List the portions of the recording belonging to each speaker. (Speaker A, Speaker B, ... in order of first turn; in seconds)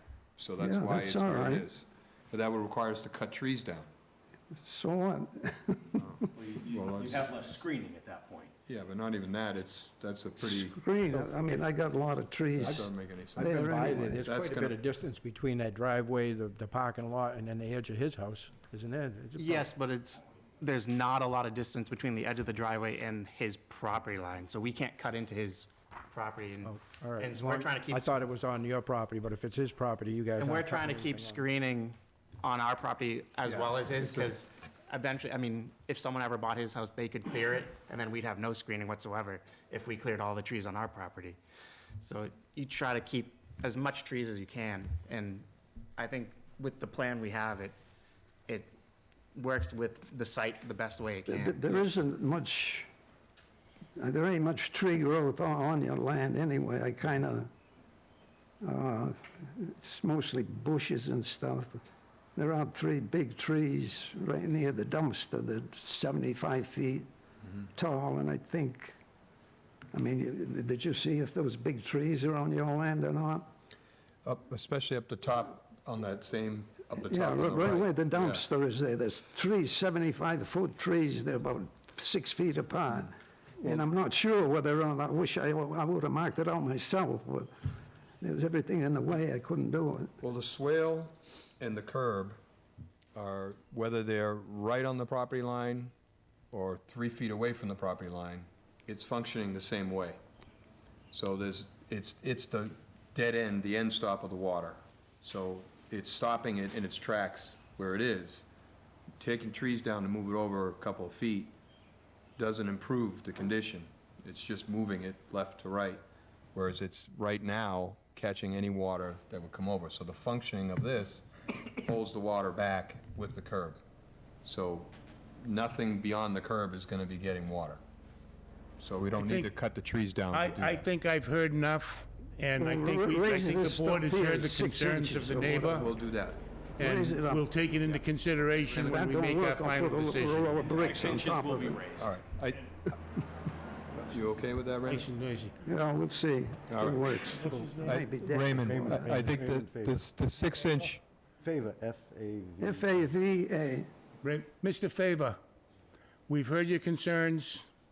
Speaker A: 0.4-3.9, 6.0-7.4, 8.7-10.8, 12.6-14.8, 33.4-34.4, 74.2-78.4, 83.6-83.9, 90.2-92.4, 93.1-95.9, 96.5-100.2, 101.1-108.5, 109.2-111.5, 112.4-116.0, 116.5-123.8, 124.4-127.8, 128.8-130.8, 135.8-136.4, 141.9-142.9, 143.9-145.1, 146.7-147.1, 147.8-151.0
Speaker B: 0.6-1.7, 4.6-6.0, 10.4-14.2, 51.3-52.9, 54.0-57.5, 58.6-61.8, 62.4-67.1, 67.7-69.0, 69.9-73.5, 77.0-87.5, 88.2-90.1, 132.6-135.8, 136.8-137.4, 138.7-141.8, 145.6-149.2, 152.6-153.9
Speaker C: 6.4-8.5, 140.7-142.1
Speaker D: 11.1-11.6, 12.6-19.7, 26.6-31.4
Speaker E: 19.4-28.2, 30.4-41.4, 42.0-47.7, 48.5-48.7, 49.3-51.9
Speaker F: 129.2-129.5, 130.3-135.9, 136.8-140.7, 144.8-145.5, 154.2-155.4, 156.3-157.7
Speaker G: 148.6-150.1, 151.4-153.1